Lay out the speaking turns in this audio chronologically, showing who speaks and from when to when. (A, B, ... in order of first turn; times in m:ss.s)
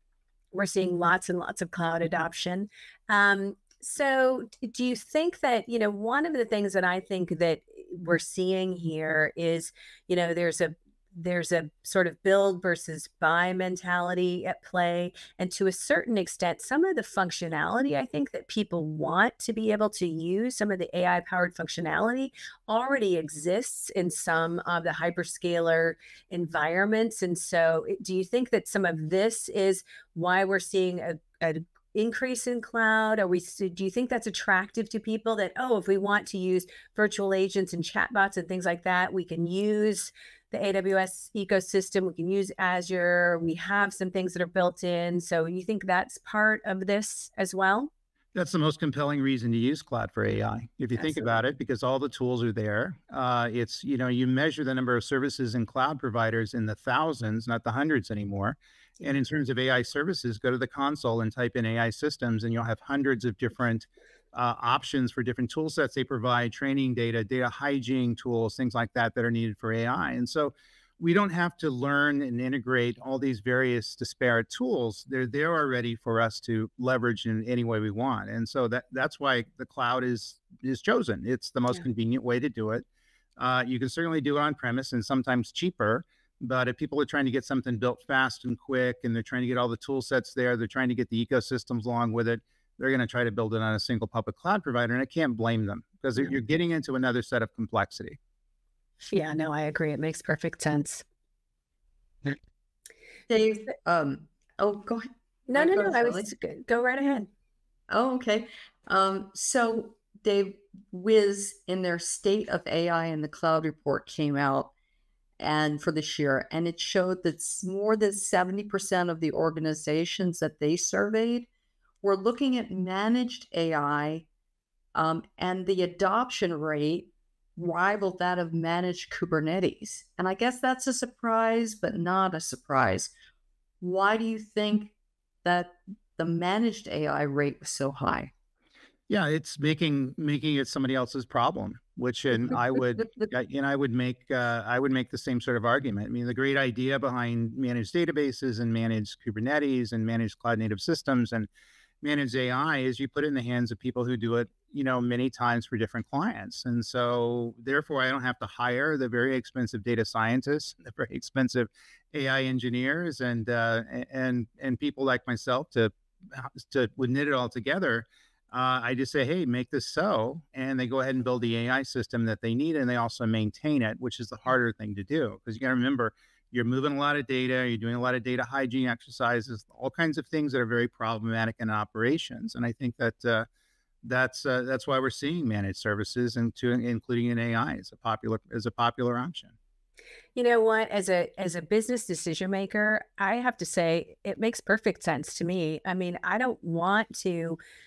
0:00.5-0:47.9 A
0:48.3-1:22.8 B
0:51.0-0:51.3 A
1:23.4-1:38.2 B
1:39.1-1:41.0 A
1:43.3-1:46.3 C
1:45.5-1:47.3 A
1:47.9-1:54.7 C
1:55.4-2:01.5 C
2:02.0-2:04.2 C
2:04.9-2:13.1 C
2:13.8-2:18.3 C
2:19.1-2:31.5 B
2:32.0-3:03.5 B
3:04.0-3:09.5 B
3:10.4-3:17.6 A